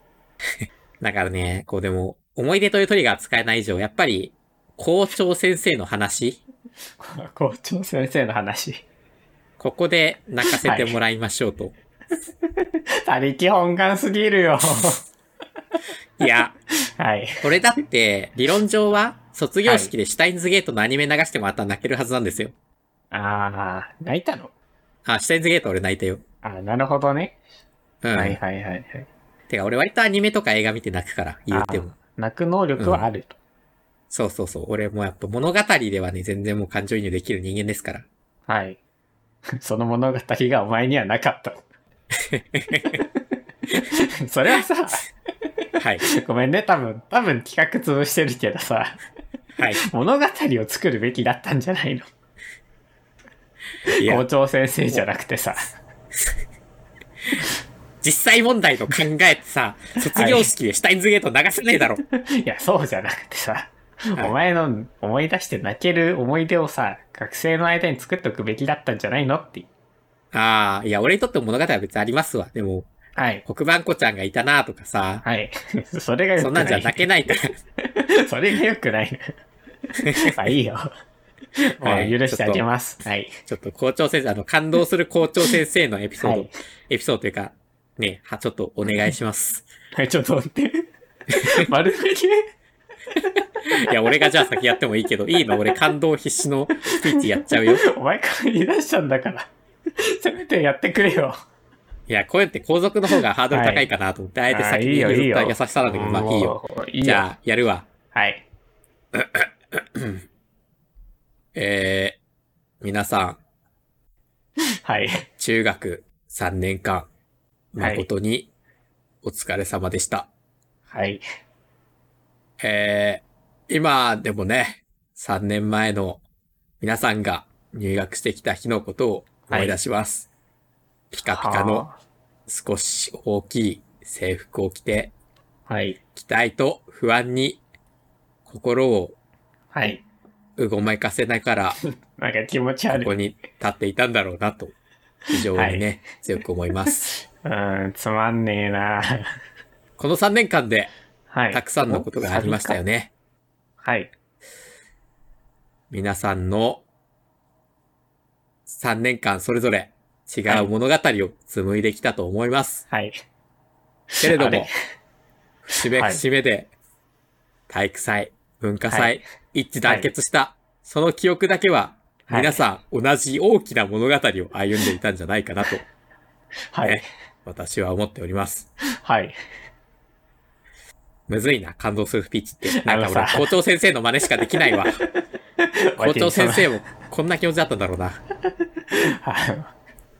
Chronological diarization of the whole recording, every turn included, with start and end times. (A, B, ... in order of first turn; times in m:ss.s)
0:00.6-0:06.4 A
0:07.0-0:08.8 B
0:09.6-0:11.7 A
0:10.5-0:11.0 B
0:12.6-0:15.0 B
0:16.2-0:16.5 A
0:16.9-0:17.4 B
0:17.4-0:22.5 A
0:19.6-0:19.9 B
0:23.1-0:24.5 B
0:25.0-0:26.2 A
0:26.4-0:27.4 B
0:28.0-0:28.4 A
0:28.1-0:29.1 B
0:29.5-0:31.9 A
0:31.5-0:33.4 B
0:32.8-0:33.0 A
0:34.1-0:38.0 A
0:38.5-0:38.8 B
0:39.6-0:41.6 B
0:42.2-0:43.0 A
0:43.7-0:45.1 B
0:45.8-0:46.0 A
0:46.0-0:49.0 B
0:49.8-0:52.1 B
0:53.9-0:55.7 B
0:54.0-0:54.2 A
0:58.0-1:02.0 A
1:00.1-1:00.5 B
1:02.1-1:09.7 B
1:10.3-1:12.9 A
1:13.2-1:13.4 B
1:13.4-1:15.2 A
1:15.2-1:19.3 B
1:16.4-1:17.5 A
1:19.9-1:20.9 B
1:20.0-1:20.3 A
1:21.6-1:23.4 B
1:21.8-1:22.6 A
1:23.5-1:29.6 A
1:26.2-1:26.5 B
1:29.9-1:30.9 B
1:31.4-1:32.5 B
1:33.2-1:34.5 B
1:33.7-1:37.8 A
1:35.4-1:35.7 B
1:36.9-1:41.4 B
1:42.1-1:47.9 A
1:43.5-1:43.9 B
1:44.5-1:47.3 B
1:48.1-1:48.4 B
1:49.1-1:50.2 A
1:51.5-1:52.2 A
1:52.8-1:53.4 A
1:54.8-1:55.2 B
1:55.4-1:57.1 A
1:57.7-1:58.5 A
1:57.8-1:58.0 B
1:59.2-2:00.3 A
2:00.9-2:01.2 B
2:02.6-2:06.2 A
2:06.8-2:10.3 A
2:09.5-2:09.8 B
2:11.1-2:11.9 A
2:11.3-2:12.0 B
2:12.5-2:15.1 A
2:15.7-2:16.0 B
2:16.1-2:17.6 A
2:18.4-2:19.2 A
2:19.7-2:20.0 B
2:20.6-2:21.8 A
2:22.2-2:23.1 B
2:22.9-2:24.7 A
2:25.3-2:27.1 A
2:25.5-2:25.8 B
2:27.0-2:29.3 B
2:30.0-2:30.9 A
2:31.3-2:32.8 B
2:31.5-2:33.1 A
2:33.8-2:34.1 B
2:35.9-2:36.8 A
2:38.7-2:42.8 A
2:42.9-2:43.2 B
2:44.1-2:44.7 B
2:44.2-2:44.7 A
2:45.7-2:46.7 A
2:45.9-2:46.2 B
2:47.7-2:55.8 A
2:48.9-2:49.2 B
2:49.8-2:50.1 B
2:52.3-2:52.6 B
2:56.7-2:57.0 B
2:56.8-2:58.7 A
2:59.0-2:59.4 B
3:01.3-3:05.0 A
3:02.7-3:03.5 B
3:04.6-3:05.1 B
3:05.6-3:06.7 B
3:06.0-3:08.2 A
3:08.9-3:09.7 B